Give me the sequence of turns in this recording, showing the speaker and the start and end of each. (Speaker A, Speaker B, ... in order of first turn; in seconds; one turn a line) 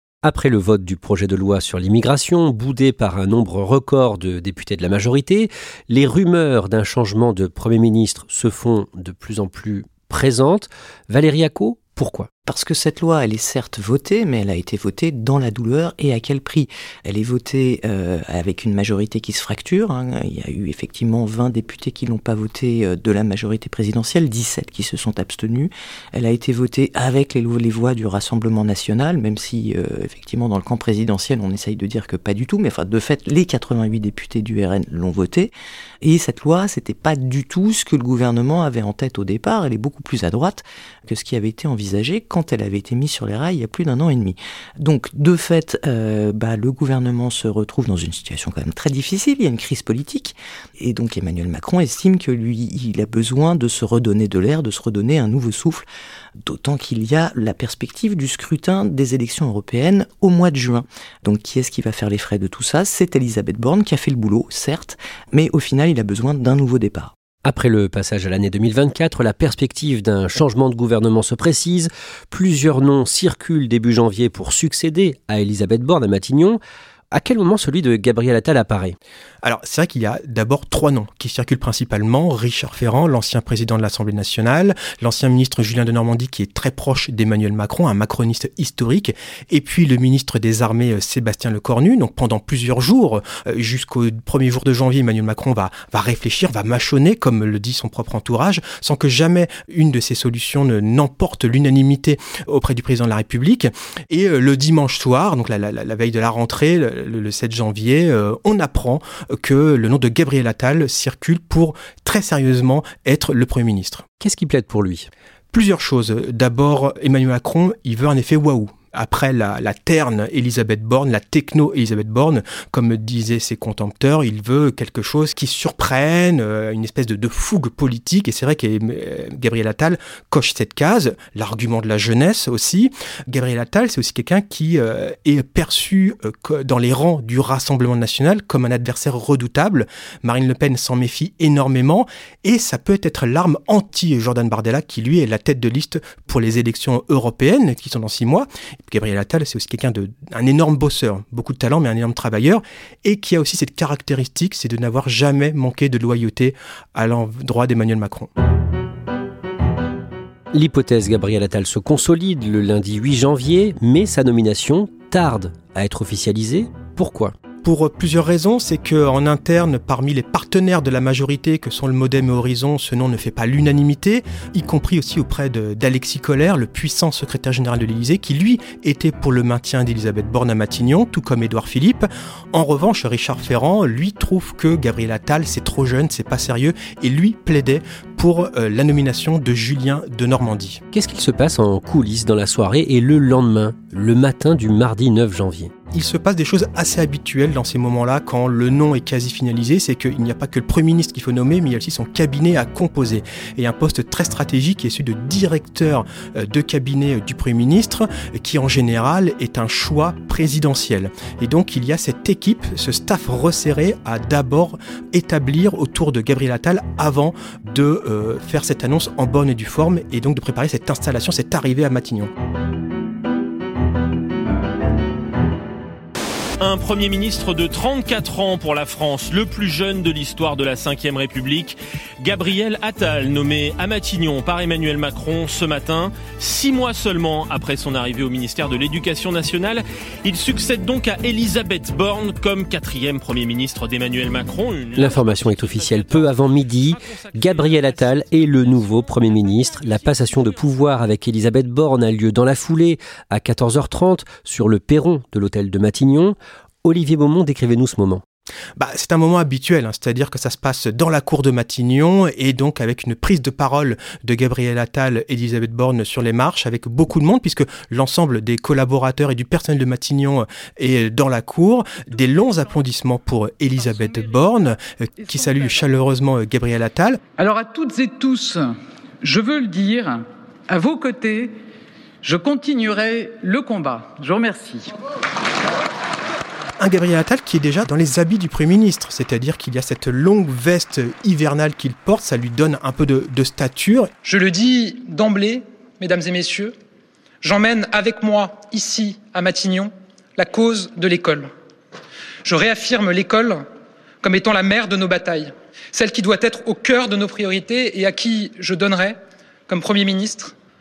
Speaker A: 0.2-12.3
Speaker B: 12.4-55.9
Speaker B: 56.4-67.1
Speaker A: 67.4-76.6
Speaker A: 77.1-79.0
Speaker C: 79.4-114.0
Speaker A: 114.2-115.1
Speaker C: 115.5-158.3
Speaker A: 160.5-167.3
Speaker C: 167.6-190.8
Speaker A: 190.9-195.7
Speaker C: 195.9-222.3
Speaker D: 226.6-250.9
Speaker A: 244.9-258.2
Speaker C: 258.8-277.2
Speaker E: 277.4-281.6
Speaker E: 282.2-284.9
Speaker C: 286.8-294.1
Speaker F: 294.2-296.7
Speaker F: 297.4-301.5
Speaker F: 302.4-303.6
Speaker F: 304.2-309.2
Speaker F: 309.7-310.5